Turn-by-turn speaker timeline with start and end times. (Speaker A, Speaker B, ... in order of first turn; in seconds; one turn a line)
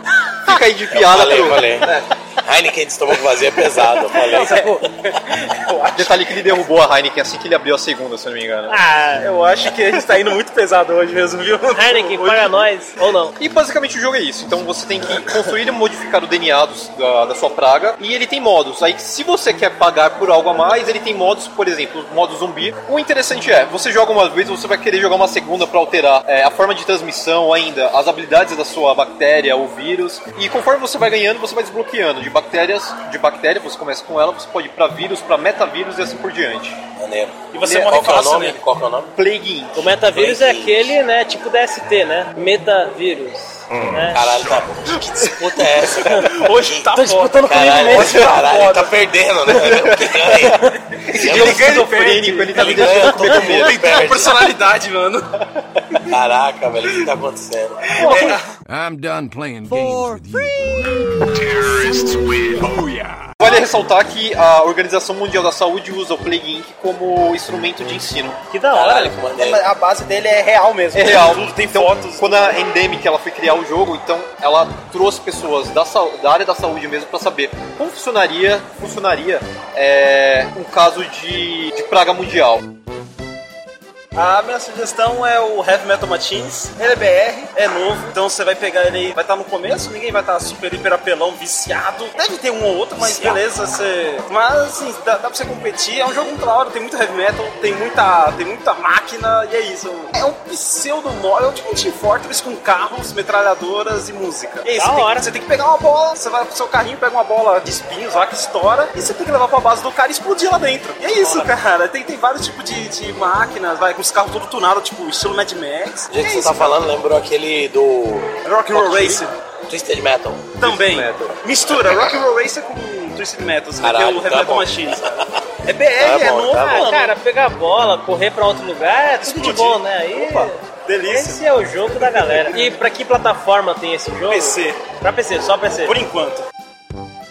Speaker A: 0.4-2.1
Speaker B: 0.9-4.7
Speaker C: 4.0-6.5
Speaker D: 4.3-4.8
Speaker A: 6.0-8.8
Speaker D: 8.7-9.3
Speaker C: 9.2-12.7
Speaker D: 11.7-13.4
Speaker A: 13.4-36.8
Speaker B: 37.0-39.1
Speaker C: 37.5-38.6
Speaker A: 37.6-37.9
Speaker A: 39.2-39.9
Speaker D: 39.8-44.3
Speaker B: 40.1-41.0
Speaker B: 44.1-51.7
Speaker C: 45.2-49.0
Speaker D: 46.0-48.3
Speaker A: 48.1-48.4
Speaker A: 49.5-54.0
Speaker C: 51.1-56.1
Speaker B: 52.5-54.5
Speaker B: 56.1-58.4
Speaker C: 58.0-58.5
Speaker A: 58.0-58.4
Speaker E: 58.7-63.3
Speaker A: 63.4-68.4
Speaker D: 68.5-69.2
Speaker B: 68.7-69.6
Speaker C: 69.4-72.6
Speaker A: 70.9-82.6
Speaker C: 84.1-116.8
Speaker B: 93.0-93.4
Speaker D: 104.7-105.3
Speaker D: 111.2-111.5
Speaker B: 116.1-120.5
Speaker C: 118.5-119.3
Speaker C: 120.6-125.1
Speaker A: 120.6-121.4
Speaker B: 123.8-125.4
Speaker C: 125.6-127.1
Speaker B: 126.0-126.9
Speaker D: 126.6-135.9
Speaker C: 129.2-131.4
Speaker C: 132.0-132.7
Speaker C: 134.3-134.8
Speaker C: 135.9-136.4